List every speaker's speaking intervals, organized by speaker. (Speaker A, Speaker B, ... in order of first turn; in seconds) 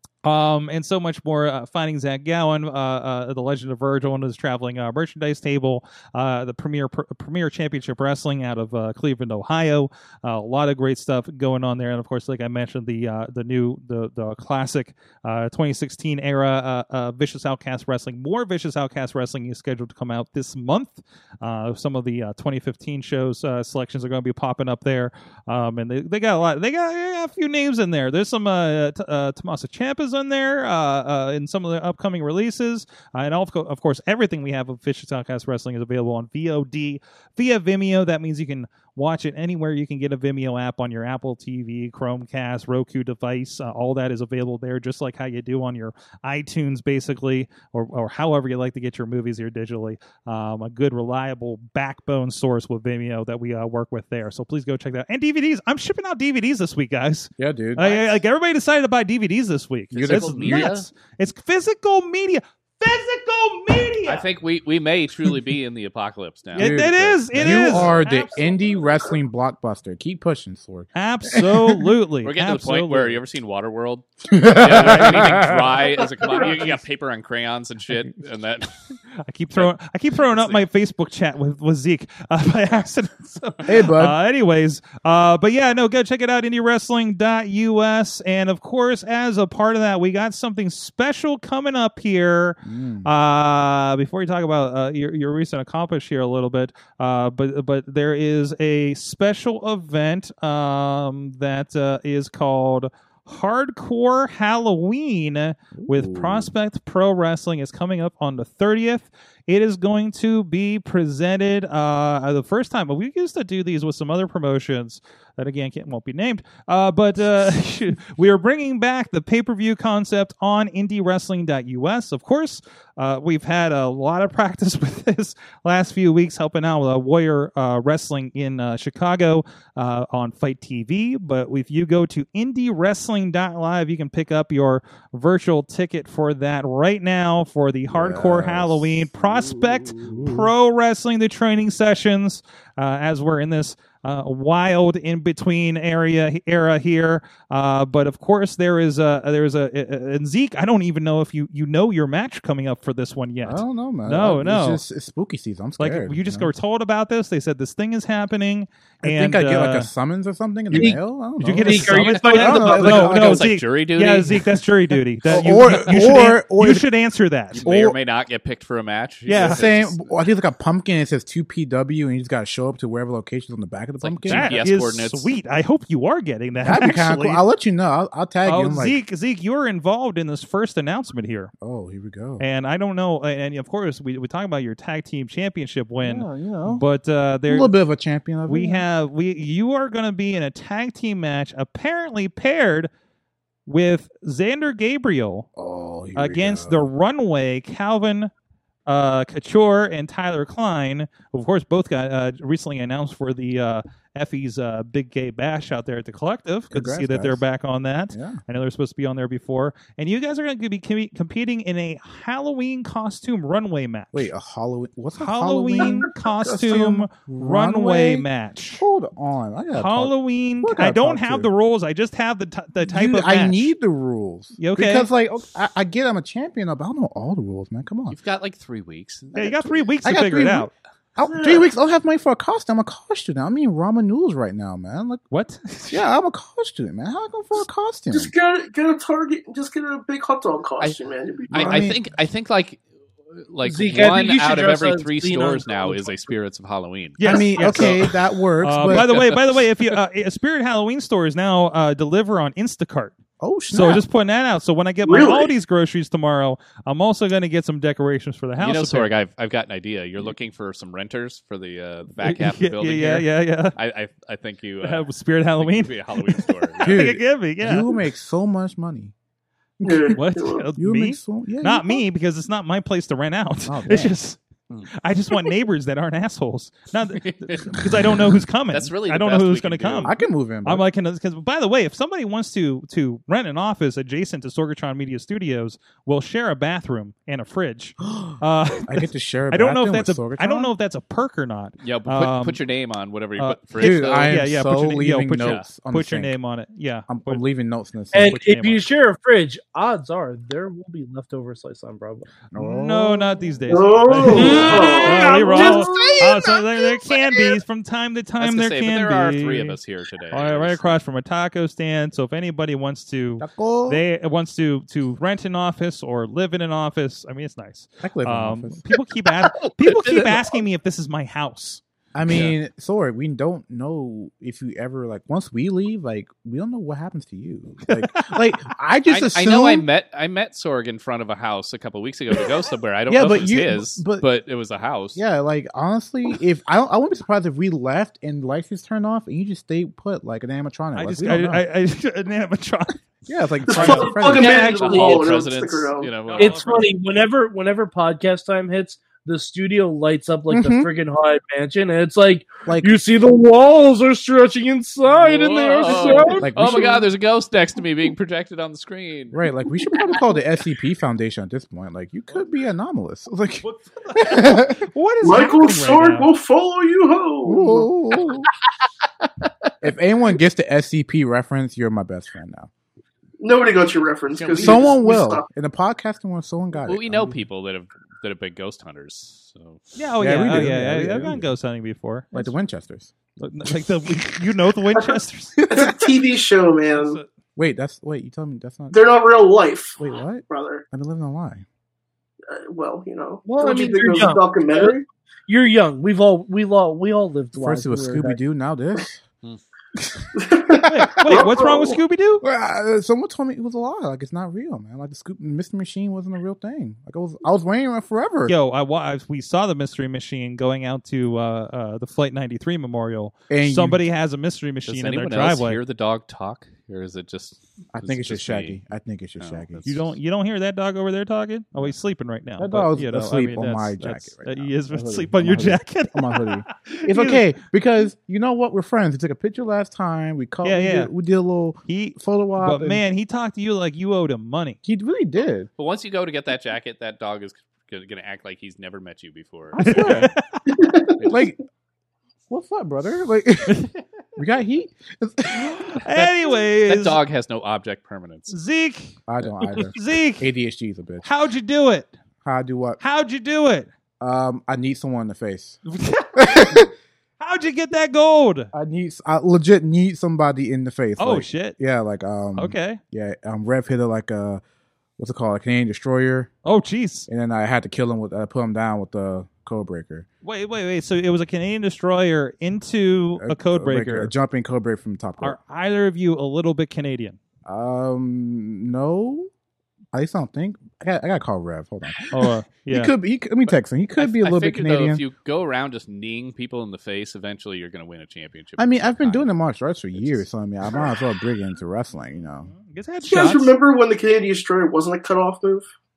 Speaker A: 0.2-64.3, 66.5-68.4, 71.0-73.2, 74.9-75.3, 79.2-154.8, 155.8-159.9, 160.7-167.7, 169.3-169.7, 174.3-177.4, 178.4-181.5, 182.4-187.7, 188.5-192.9, 193.7-195.5, 196.2-198.3, 198.9-214.3, 215.2-218.8, 219.8-223.7, 224.6-225.1, 229.3-230.7, 235.3-236.1, 247.2-248.1, 248.6-253.2, 253.7-259.1, 262.2-263.8, 264.8-267.9, 270.1-274.4, 274.9-280.1, 280.6-292.6, 293.4-297.4, 298.2-298.8, 302.6-309.8, 310.3-321.8, 327.9-328.4, 340.9-343.0, 343.7-344.2, 346.2-346.9, 363.6-366.3, 380.0-382.5, 383.4-385.6, 386.9-387.3, 400.9-402.4, 408.5-415.8, 419.9-427.5, 430.6-431.1, 431.9-434.8, 439.8-440.6, 445.8-447.2, 448.5-449.1, 449.9-450.5, 451.2-452.1, 453.0-453.9, 455.9-456.9, 457.4-458.7, 461.2-461.8, 462.6-463.0, 466.6-467.3, 470.4-474.3, 475.4-477.4, 482.3-483.1, 492.7-493.7
Speaker B: 57.4-58.0, 59.9-60.8, 66.5-71.9, 74.3-75.8, 83.7-84.2, 92.6-93.1, 105.8-106.5, 137.9-140.5, 153.4-156.5, 159.0-163.5, 165.3-166.9, 167.7-167.9, 169.3-174.6, 176.6-179.0, 181.6-182.4, 186.0-186.8, 187.5-188.8, 195.6-196.8, 206.7-207.4, 208.1-208.4, 214.1-221.5, 222.8-228.2, 230.0-235.2, 235.9-238.3, 241.5-242.0, 247.2-249.1, 253.4-254.0, 266.8-269.1, 269.8-270.2, 270.8-272.0, 273.7-274.1, 280.0-280.9, 288.0-290.7, 293.8-296.4, 297.1-298.4, 302.5-304.6, 313.4-314.0, 318.0-318.9, 322.1-329.9, 333.1-334.3, 335.1-341.6, 343.3-344.6, 350.5-350.9, 352.7-353.0, 356.4-357.0, 359.3-364.9, 367.4-368.5, 369.8-372.7, 374.6-377.4, 380.2-381.5, 382.3-383.1, 385.6-386.0, 387.6-389.0, 390.0-391.6, 397.6-399.2, 400.0-401.3, 402.4-408.6, 413.5-414.0, 417.9-420.1, 422.6-433.0, 434.8-435.7, 439.7-440.3, 441.2-441.6, 442.5-446.0, 449.3-451.3, 452.4-453.0, 454.2-455.8, 456.4-456.9, 458.7-464.6, 465.2-466.5, 467.3-470.3, 473.4-475.6, 477.6-479.5, 480.1-485.2, 488.8-492.7
Speaker C: 60.0-60.9, 64.1-68.1, 72.2-79.0, 79.5-80.7, 162.5-164.6, 167.5-170.1, 174.0-175.3, 228.1-229.7, 241.5-242.8, 243.4-248.2, 248.8-250.0, 258.6-265.1, 265.6-267.1, 277.1-278.0, 278.7-280.2, 291.8-294.4, 295.4-295.6, 308.4-311.0, 319.5-320.6, 329.1-335.2, 344.3-346.9, 355.1-359.4, 374.3-375.0, 376.9-379.8, 414.9-418.8, 419.4-419.9, 435.8-440.3, 441.2-441.4, 446.8-448.6, 484.2-489.5, 490.1-490.4
Speaker D: 160.7-161.0, 161.6-163.2, 243.6-246.3, 298.1-302.3, 304.3-307.0, 344.4-345.4, 346.4-356.5, 393.4-395.0, 395.5-398.4
Speaker E: 231.3-231.7, 238.1-241.9, 255.0-255.5, 269.8-270.7, 303.7-306.3, 343.7-346.1, 365.2-367.9, 373.4-375.5, 385.7-387.2, 388.9-390.8, 392.5-395.0, 400.4-402.0, 440.7-441.1, 493.2-495.9